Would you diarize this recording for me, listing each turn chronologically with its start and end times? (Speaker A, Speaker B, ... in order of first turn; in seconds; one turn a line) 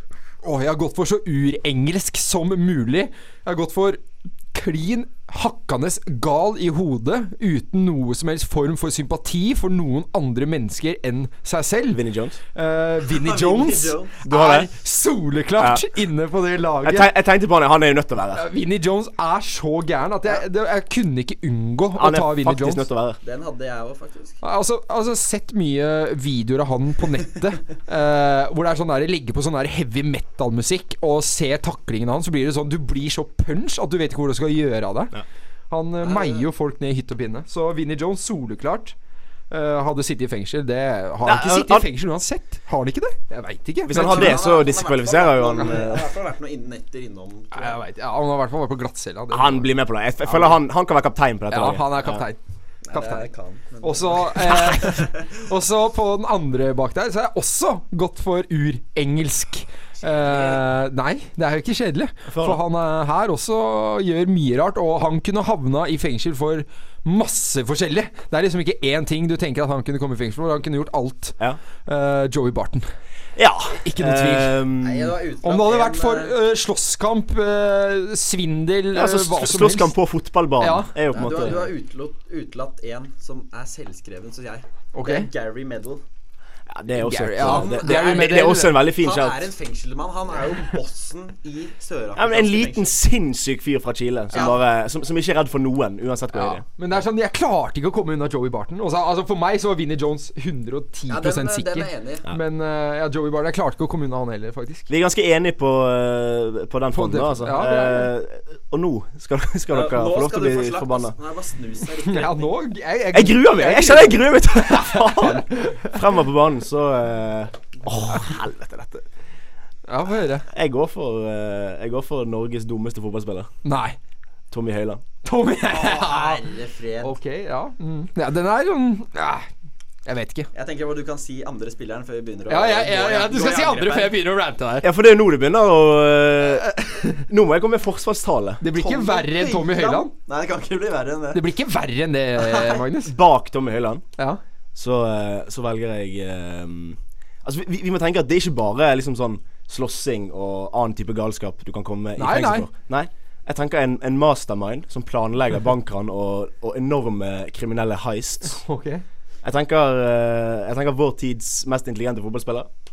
Speaker A: 0.4-4.0
Speaker A: 4.5-12.0
Speaker B: 11.9-12.4
Speaker A: 12.5-17.1
Speaker C: 13.1-14.2
Speaker B: 14.2-14.7
Speaker B: 15.6-15.9
Speaker B: 16.8-18.4
Speaker A: 18.3-22.9
Speaker B: 21.9-23.2
Speaker C: 23.2-24.4
Speaker A: 24.4-35.1
Speaker A: 35.7-39.0
Speaker C: 36.0-36.5
Speaker A: 39.5-44.4
Speaker B: 41.2-41.9
Speaker B: 43.9-46.1
Speaker C: 43.9-47.8
Speaker A: 47.5-49.7
Speaker B: 49.3-52.3
Speaker A: 51.5-52.4
Speaker C: 52.9-55.3
Speaker A: 52.9-53.3
Speaker A: 53.8-72.9
Speaker C: 60.0-60.6
Speaker B: 62.3-62.6
Speaker B: 73.4-75.2
Speaker A: 73.8-74.5
Speaker C: 74.8-76.3
Speaker A: 75.4-79.9
Speaker B: 78.9-81.7
Speaker A: 80.6-80.9
Speaker C: 81.1-86.0
Speaker A: 84.9-85.3
Speaker B: 86.7-89.5
Speaker A: 87.0-88.7
Speaker C: 87.4-92.9
Speaker B: 92.2-96.7
Speaker C: 94.3-94.6
Speaker A: 96.3-104.9
Speaker C: 101.1-102.3
Speaker B: 104.9-111.2
Speaker A: 106.9-108.1
Speaker C: 109.7-112.6
Speaker A: 112.1-116.0
Speaker B: 113.1-119.1
Speaker A: 119.9-120.5
Speaker B: 120.5-123.5
Speaker A: 123.6-124.0
Speaker B: 124.5-125.0
Speaker A: 125.2-126.4
Speaker C: 125.7-127.2
Speaker A: 127.0-129.5
Speaker A: 130.1-130.5
Speaker C: 130.5-134.2
Speaker A: 132.5-134.9
Speaker B: 134.8-138.6
Speaker A: 136.8-137.2
Speaker A: 138.6-140.1
Speaker C: 138.7-141.4
Speaker A: 141.3-143.1
Speaker C: 142.4-142.8
Speaker B: 143.1-144.0
Speaker B: 144.8-158.6
Speaker A: 152.2-152.7
Speaker A: 158.6-159.0
Speaker B: 159.4-162.7